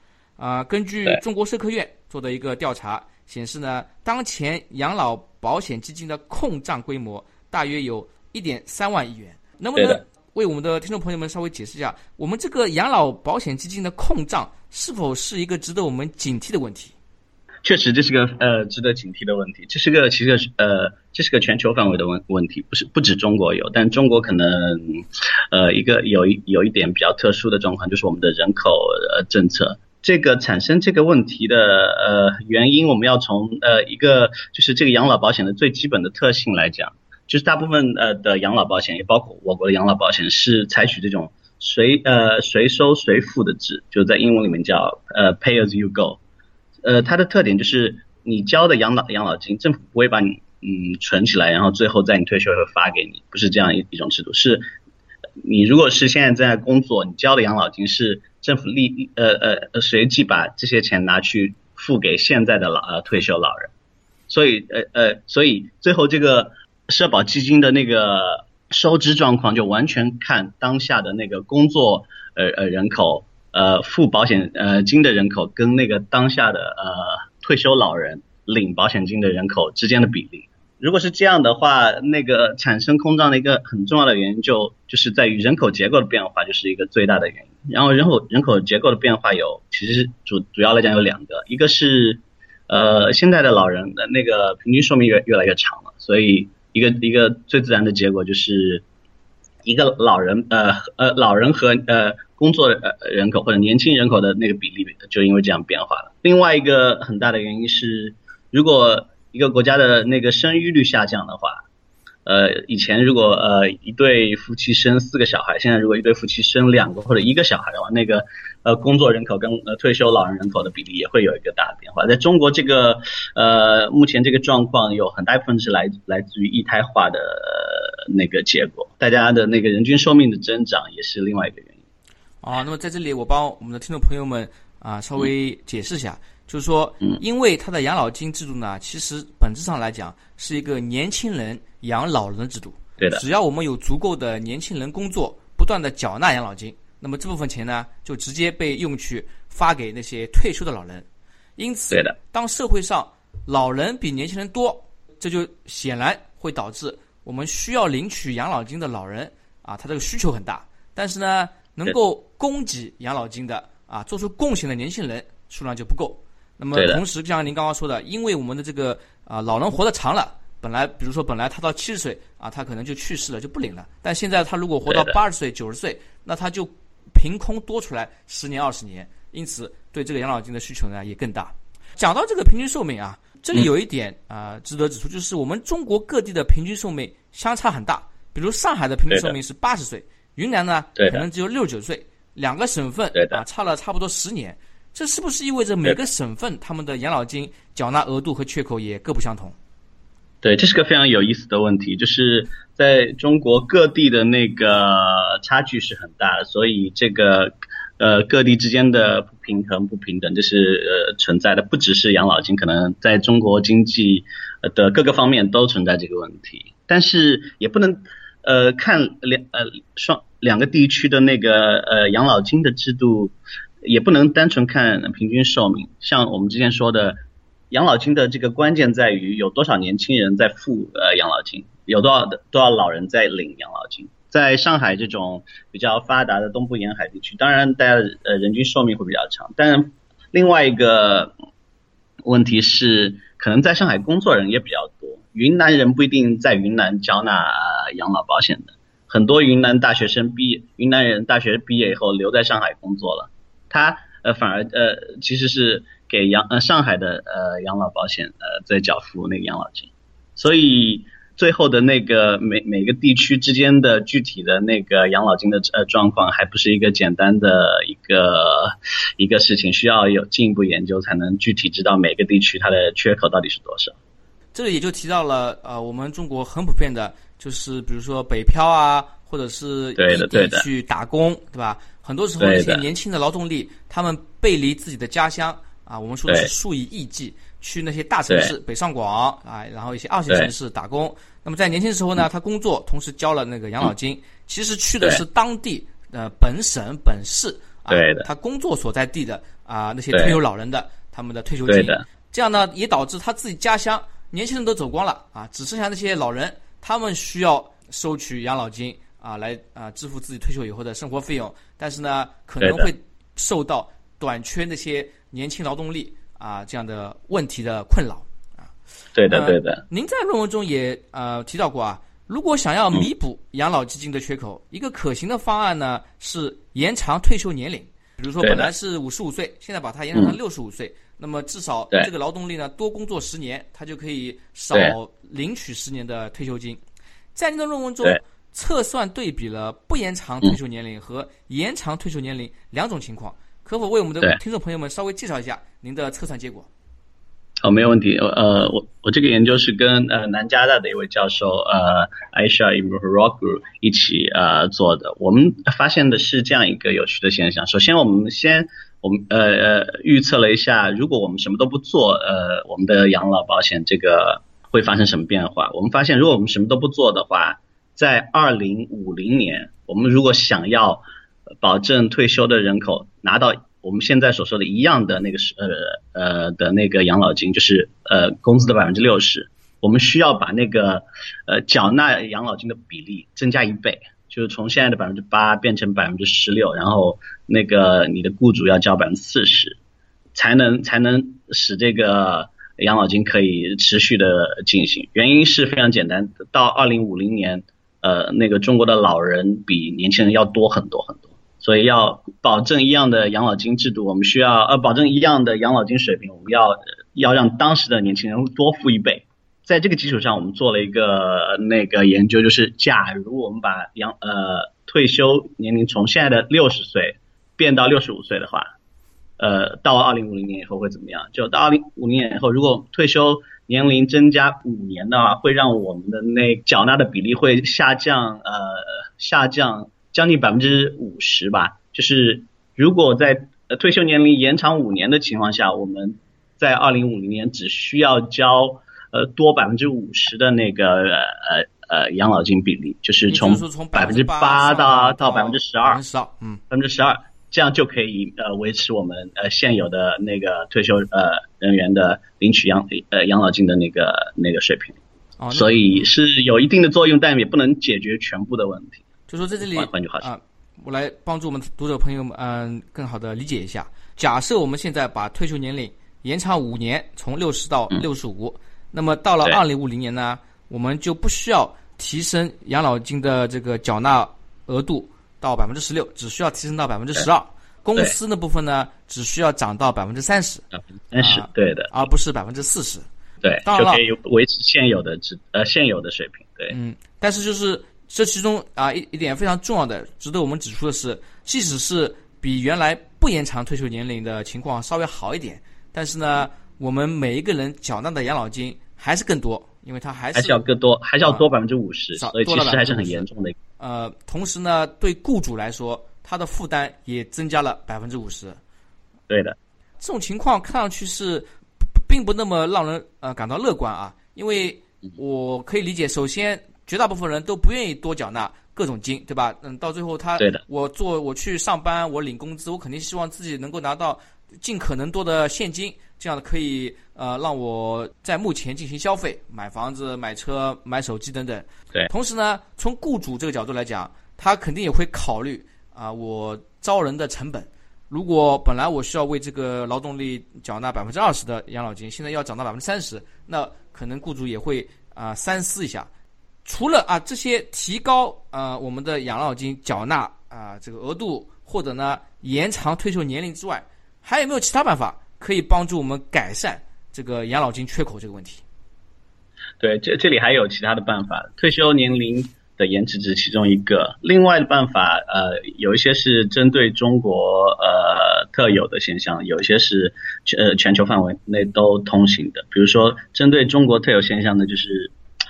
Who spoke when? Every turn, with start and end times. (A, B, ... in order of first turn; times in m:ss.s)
0:00.4-0:16.9 A
0:17.6-0:46.2 B
0:46.8-0:54.6 B
0:55.4-1:03.7 B
1:04.3-1:38.8 B
1:39.6-1:51.6 B
1:52.2-2:11.8 B
2:12.4-2:31.0 A
2:31.6-3:19.6 A
2:31.9-2:32.2 B
2:46.7-2:47.0 B
2:54.9-2:55.2 B
3:11.0-3:11.2 B
3:13.1-3:13.4 B
3:20.4-3:43.3 B
3:43.8-3:47.2 B
3:47.7-4:01.3 B
4:02.2-4:33.9 B
4:34.5-5:18.3 A
4:40.0-4:40.6 B
4:42.4-4:42.8 B
4:48.3-4:48.5 B
4:57.9-4:58.3 B
5:00.1-5:00.4 B
5:01.7-5:02.0 B
5:12.6-5:12.9 B
5:19.1-5:19.8 B
5:19.3-5:36.8 A
5:28.4-5:28.7 B
5:37.3-5:46.7 A
5:47.6-6:11.0 B
6:11.6-6:29.8 B
6:30.3-6:58.7 B
6:59.4-7:26.0 B
7:23.3-7:26.6 A
7:26.7-7:35.0 B
7:35.4-7:36.0 A
7:35.5-7:39.0 B
7:39.3-8:00.6 A
7:39.6-7:40.3 B
8:01.1-8:01.9 B
8:01.2-8:03.0 A
8:03.4-8:06.7 B
8:03.6-8:04.0 A
8:06.7-8:20.6 A
8:20.3-8:23.6 B
8:22.2-8:23.2 A
8:23.8-8:28.6 A
8:29.3-8:29.6 B
8:30.0-9:06.1 A
9:06.6-9:18.6 A
9:19.8-9:35.1 B